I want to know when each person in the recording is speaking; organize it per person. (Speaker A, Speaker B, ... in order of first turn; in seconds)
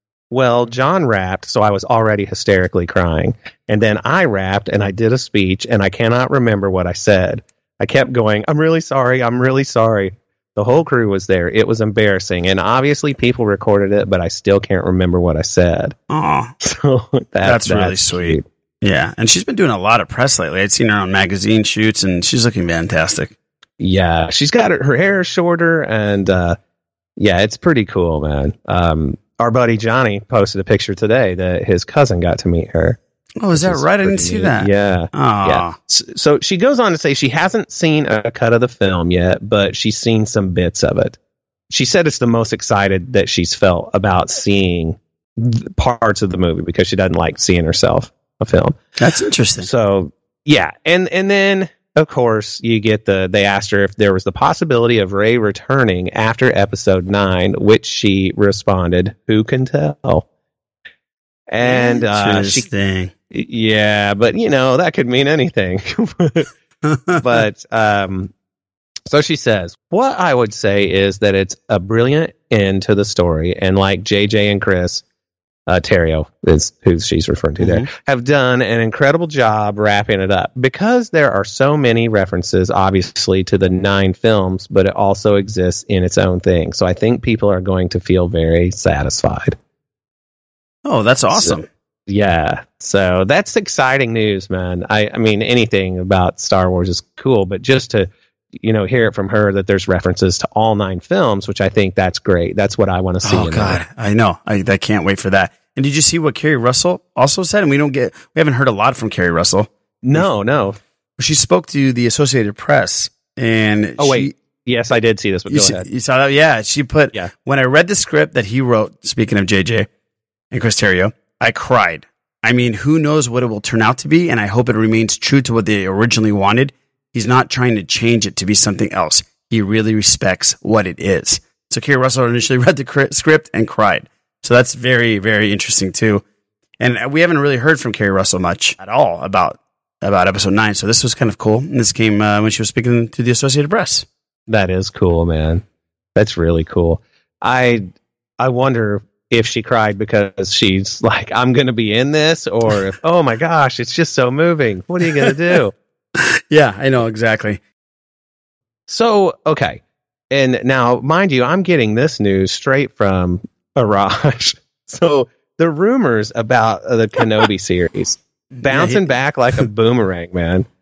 Speaker A: 0.3-15.9, 16.6-18.4, 23.8-26.6, 27.2-33.0, 33.5-41.2, 41.7-48.8, 49.6-60.2, 61.5-62.7, 63.3-66.5, 67.2-68.3, 69.1-75.0, 75.7-89.6, 91.3-103.8, 110.0-110.8, 114.0-115.9, 144.5-145.6, 146.2-147.9, 148.4-155.7, 158.9-170.7
Speaker B: 16.1-16.5, 17.4-23.3, 33.4-35.8, 49.0-49.7, 61.6-63.1, 66.8-67.2, 77.6-77.9, 90.8-91.7, 103.2-110.3, 111.2-114.3, 115.5-119.9, 120.5-136.2, 136.8-144.1, 156.2-157.6, 168.5-169.1